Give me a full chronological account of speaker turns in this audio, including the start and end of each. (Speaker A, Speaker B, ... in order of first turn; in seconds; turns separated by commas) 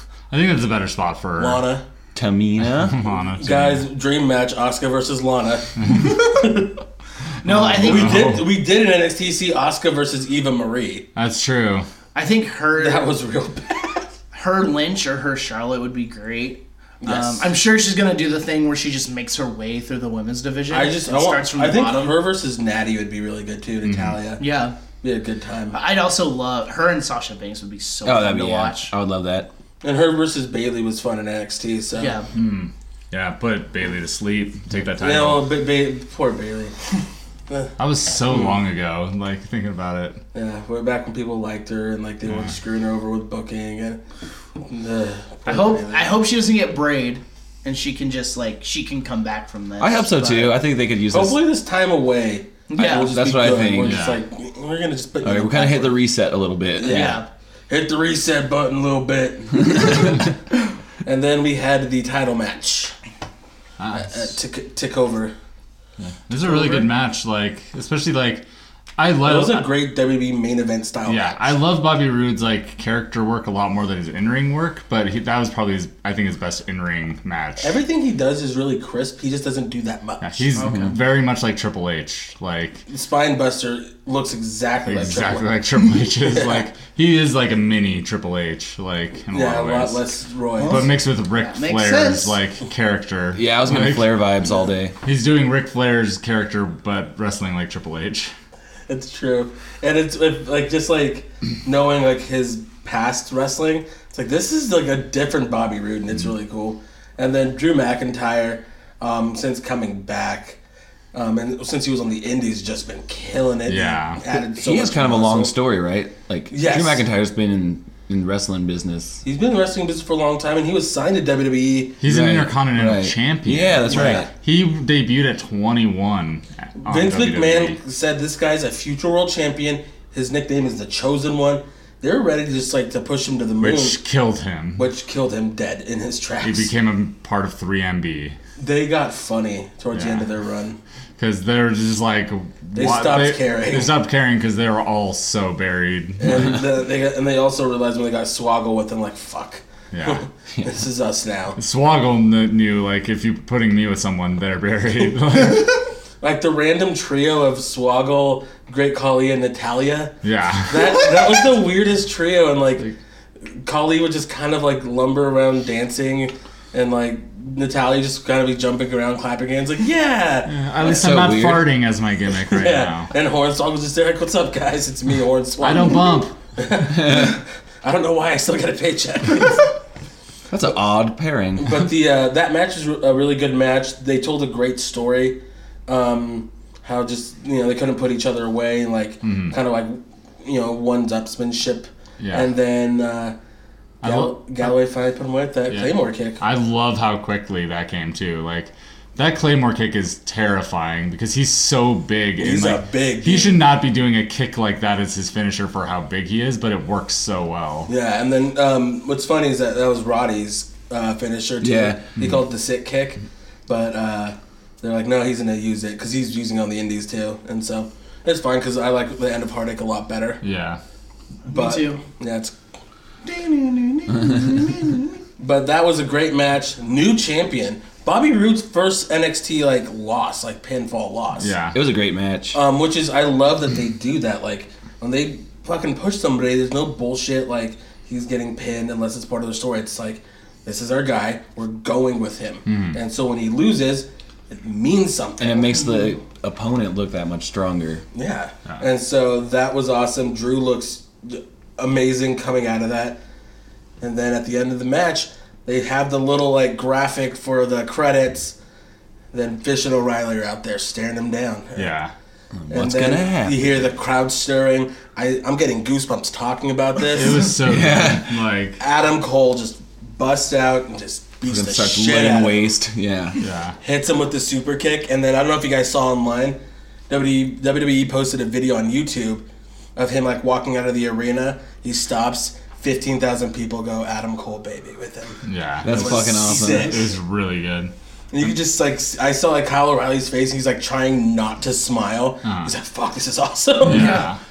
Speaker A: 0.3-1.6, Speaker B: 1.4-1.8, Speaker C: 2.1-3.0, Speaker A: 2.7-3.9, Speaker B: 3.4-6.7, Speaker A: 5.8-6.1, Speaker D: 7.4-8.3, Speaker A: 7.5-8.5, Speaker B: 7.7-11.1, Speaker A: 11.2-11.9, Speaker D: 12.2-13.1, Speaker B: 12.8-14.1, Speaker D: 14.3-22.2, Speaker B: 17.0-17.5, Speaker B: 20.7-24.4, Speaker A: 23.8-24.2, Speaker D: 24.4-24.8, Speaker B: 25.0-25.8, Speaker D: 25.7-28.9, Speaker C: 28.0-29.5, Speaker B: 29.8-32.2, Speaker D: 32.0-32.3, Speaker A: 32.3-35.5, Speaker B: 35.0-36.8, Speaker A: 37.8-40.2, Speaker B: 40.3-44.0, Speaker A: 42.2-42.5, Speaker B: 44.6-46.2, Speaker D: 45.5-50.6, Speaker C: 49.8-51.4, Speaker B: 51.1-56.0, Speaker D: 52.7-53.1, Speaker C: 52.8-54.0, Speaker A: 53.8-54.2, Speaker C: 55.2-57.2, Speaker B: 56.8-60.4, Speaker D: 56.8-57.3, Speaker B: 61.0-63.0, Speaker A: 63.8-64.3, Speaker B: 63.9-65.3, Speaker A: 66.0-68.5, Speaker B: 66.5-66.8, Speaker A: 69.0-69.7, Speaker B: 69.2-71.5, Speaker A: 71.1-77.8, Speaker B: 77.6-80.5, Speaker A: 80.2-82.8, Speaker D: 80.6-80.9, Speaker B: 82.9-85.5, Speaker A: 84.9-90.0, Speaker B: 86.2-86.7, Speaker B: 89.3-90.9, Speaker D: 90.6-92.3, Speaker A: 90.7-94.2, Speaker C: 93.3-95.0, Speaker A: 95.0-98.3, Speaker B: 98.9-110.6, Speaker B: 111.1-115.5, Speaker A: 113.7-114.2, Speaker C: 114.3-119.2, Speaker B: 116.5-117.0, Speaker B: 119.2-122.0, Speaker A: 122.0-127.8, Speaker C: 122.0-124.3, Speaker B: 123.9-124.3, Speaker B: 126.8-134.0, Speaker A: 133.6-134.8, Speaker B: 134.8-136.7, Speaker A: 136.4-138.4, Speaker B: 138.6-140.8, Speaker A: 139.9-140.3, Speaker A: 141.2-146.6, Speaker B: 142.8-143.9, Speaker B: 146.2-151.6, Speaker A: 149.9-150.2, Speaker A: 151.6-155.9, Speaker B: 156.2-160.2, Speaker A: 160.2-161.0, Speaker B: 160.7-162.9, Speaker B: 163.5-171.4, Speaker A: 170.5-173.1, Speaker C: 170.8-171.7, Speaker B: 172.5-179.7, Speaker A: 175.6-176.3, Speaker C: 177.0-177.3, Speaker C: 180.5-181.9, Speaker B: 181.6-193.3, Speaker A: 189.2-189.6, Speaker A: 192.2-192.5, Speaker A: 194.0-194.7, Speaker B: 194.0-196.4, Speaker A: 195.7-207.9, Speaker B: 202.4-203.6, Speaker B: 207.9-220.4, Speaker C: 211.6-212.1, Speaker A: 220.4-220.8, Speaker D: 221.5-222.0, Speaker B: 221.5-222.5, Speaker D: 223.2-225.2, Speaker B: 225.4-231.5, Speaker A: 231.4-231.8, Speaker C: 231.7-232.6, Speaker B: 232.5-246.1, Speaker A: 242.7-243.0, Speaker C: 245.4-248.0, Speaker B: 248.1-253.2, Speaker B: 254.0-258.6, Speaker B: 259.3-261.9, Speaker A: 261.8-262.1, Speaker C: 262.6-263.8, Speaker B: 262.7-267.5, Speaker A: 267.1-268.8, Speaker C: 267.6-268.3, Speaker B: 268.8-272.7, Speaker C: 271.5-273.4, Speaker A: 273.4-273.8, Speaker B: 273.8-276.6, Speaker B: 277.1-279.4, Speaker B: 280.0-287.1, Speaker A: 285.5-287.9, Speaker C: 285.8-287.0, Speaker B: 288.3-294.3, Speaker A: 292.4-292.7, Speaker A: 293.8-294.4, Speaker D: 293.9-294.3